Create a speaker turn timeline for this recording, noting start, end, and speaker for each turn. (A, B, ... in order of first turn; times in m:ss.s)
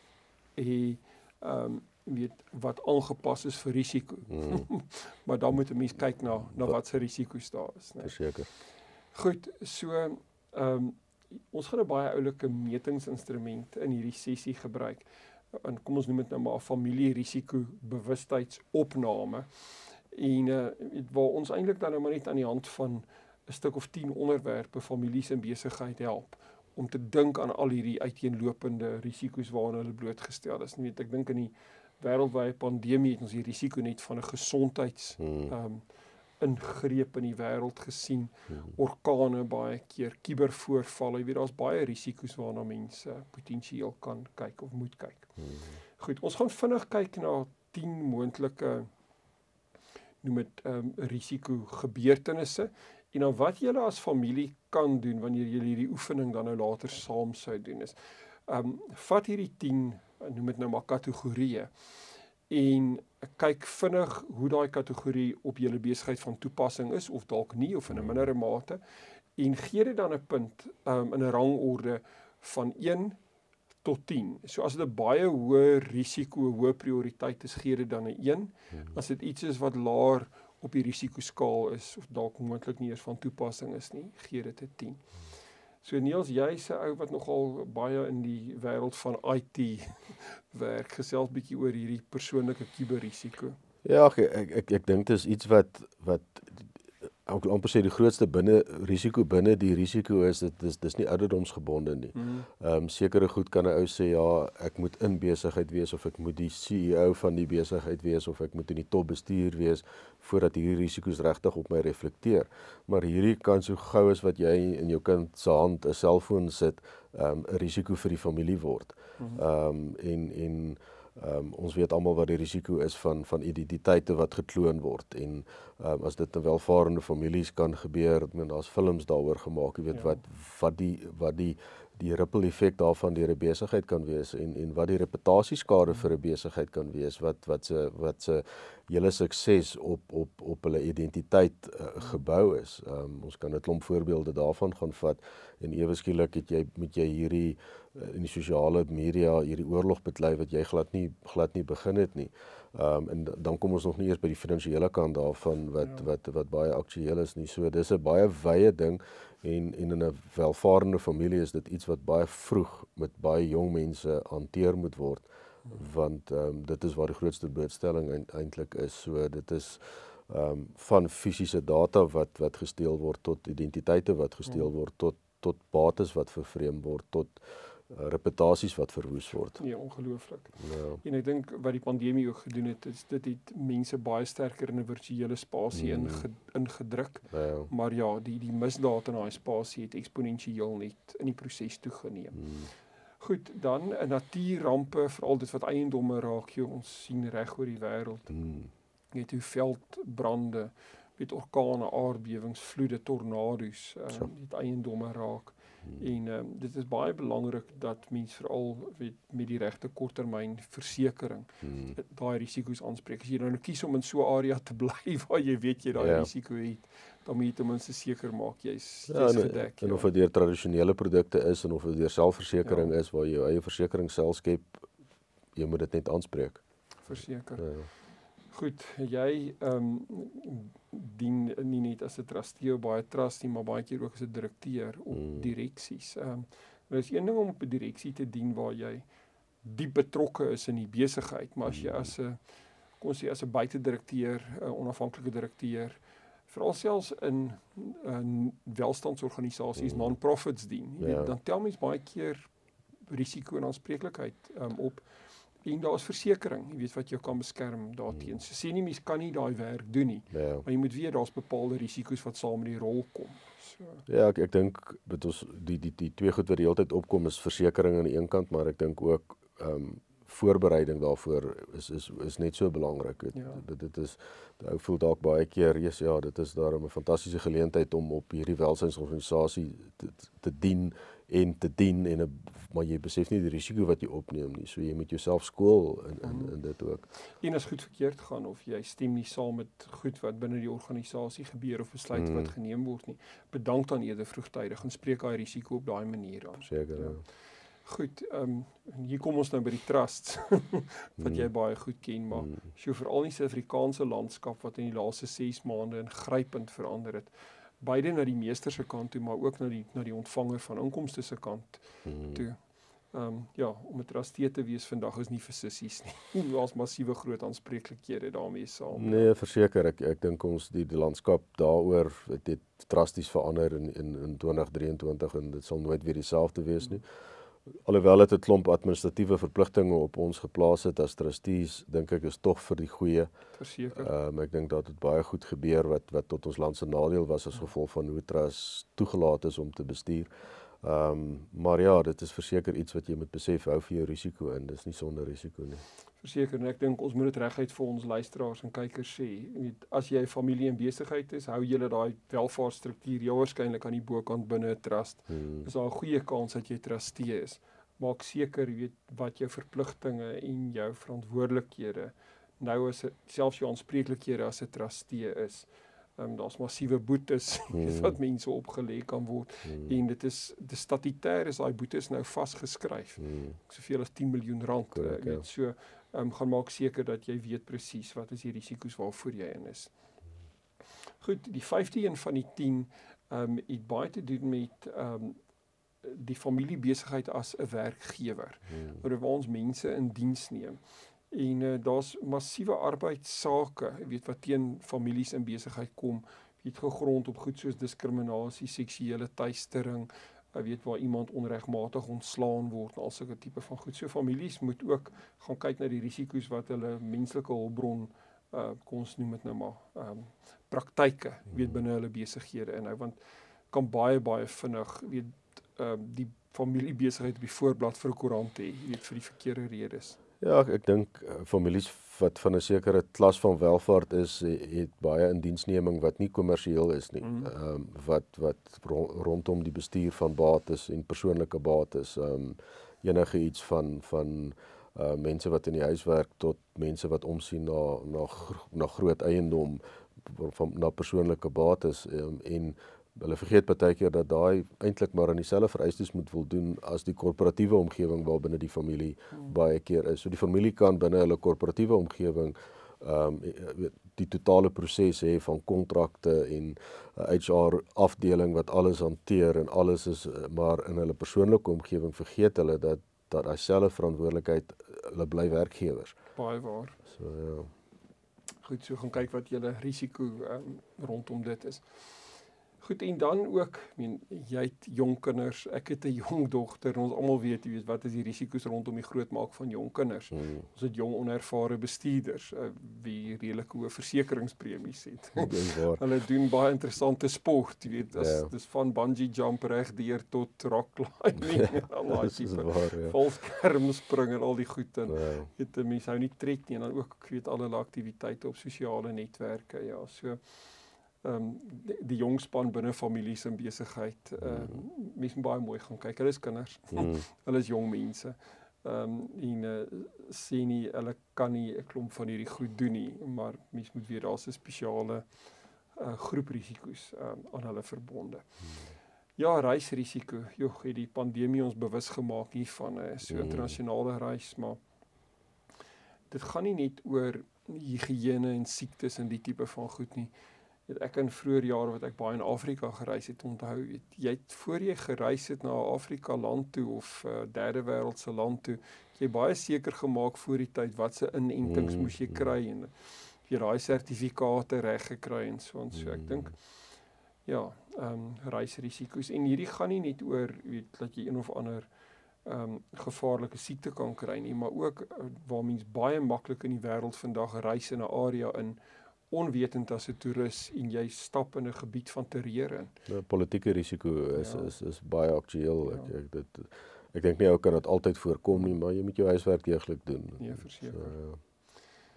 0:00.6-0:08.2 A
0:04.3-0:04.7 B
0:08.0-0:08.5 B
0:09.1-0:19.5 A
0:20.1-0:35.8 A
0:35.2-0:35.5 B
0:36.4-0:45.3 A
0:45.4-0:45.8 B
0:46.0-0:48.9 A
0:50.2-0:58.0 A
0:58.5-1:01.7 A
1:02.5-1:08.8 A
1:07.9-1:08.2 B
1:09.4-1:13.2 A
1:13.8-1:25.1 A
1:25.8-1:33.6 A
1:33.8-2:59.6 B
1:42.1-1:42.5 A
2:09.9-2:10.2 A
2:59.6-3:12.5 A
3:00.6-3:01.0 B
3:05.7-3:06.2 B
3:07.3-3:07.7 B
3:12.4-3:12.7 B
3:13.2-3:18.4 A
3:18.3-3:18.7 B
3:19.1-3:40.1 A
3:31.6-3:32.0 B
3:36.0-3:36.3 B
3:39.1-3:44.9 B
3:42.6-3:42.9 A
3:45.6-3:46.6 B
3:47.0-3:47.7 A
3:47.6-3:47.9 B
3:48.5-3:59.1 A
3:55.1-3:55.5 B
3:59.6-4:02.4 A
4:01.7-4:02.0 B
4:03.0-4:12.5 A
4:09.8-4:10.2 B
4:11.0-4:11.4 B
4:13.1-4:15.1 A
4:15.6-4:24.0 A
4:20.3-4:20.7 B
4:24.1-4:47.1 B
4:33.3-4:33.6 A
4:46.2-4:46.5 A
4:47.1-4:57.2 A
4:52.1-4:52.5 B
4:56.6-4:57.2 B
4:57.8-5:12.6 A
5:01.2-5:01.5 B
5:02.3-5:02.6 B
5:12.0-5:12.4 B
5:13.1-5:19.3 A
5:19.0-5:27.0 B
5:27.8-5:33.3 B
5:33.6-5:34.1 A
5:34.0-5:40.3 B
5:40.8-5:45.8 B
5:46.2-6:19.9 A
5:55.3-5:55.7 B
6:07.7-6:08.2 B
6:09.6-6:10.0 B
6:13.2-6:13.6 B
6:14.9-6:15.4 B
6:21.2-6:25.4 A
6:26.0-6:30.8 A
6:28.7-6:29.0 B
6:31.3-6:53.2 A
6:53.7-7:00.2 A
7:00.4-7:46.2 B
7:07.2-7:07.5 A
7:46.4-7:47.0 A
7:47.1-7:47.7 B
7:48.6-7:52.1 A
7:52.8-8:20.6 A
8:00.3-8:00.7 B
8:05.4-8:06.0 B
8:08.1-8:08.5 B
8:11.6-8:13.2 B
8:15.1-8:15.5 B
8:21.2-8:35.3 A
8:24.4-8:24.8 B
8:26.9-8:27.2 B
8:36.0-8:38.4 A
8:39.4-8:44.8 A
8:43.3-8:43.8 B
8:46.3-8:50.3 A
8:50.9-9:06.6 A
9:01.6-9:02.5 B
9:05.9-9:06.5 B
9:07.5-9:11.9 A
9:12.4-9:22.9 A
9:23.1-9:31.4 B
9:24.4-9:24.7 A
9:30.4-9:31.2 A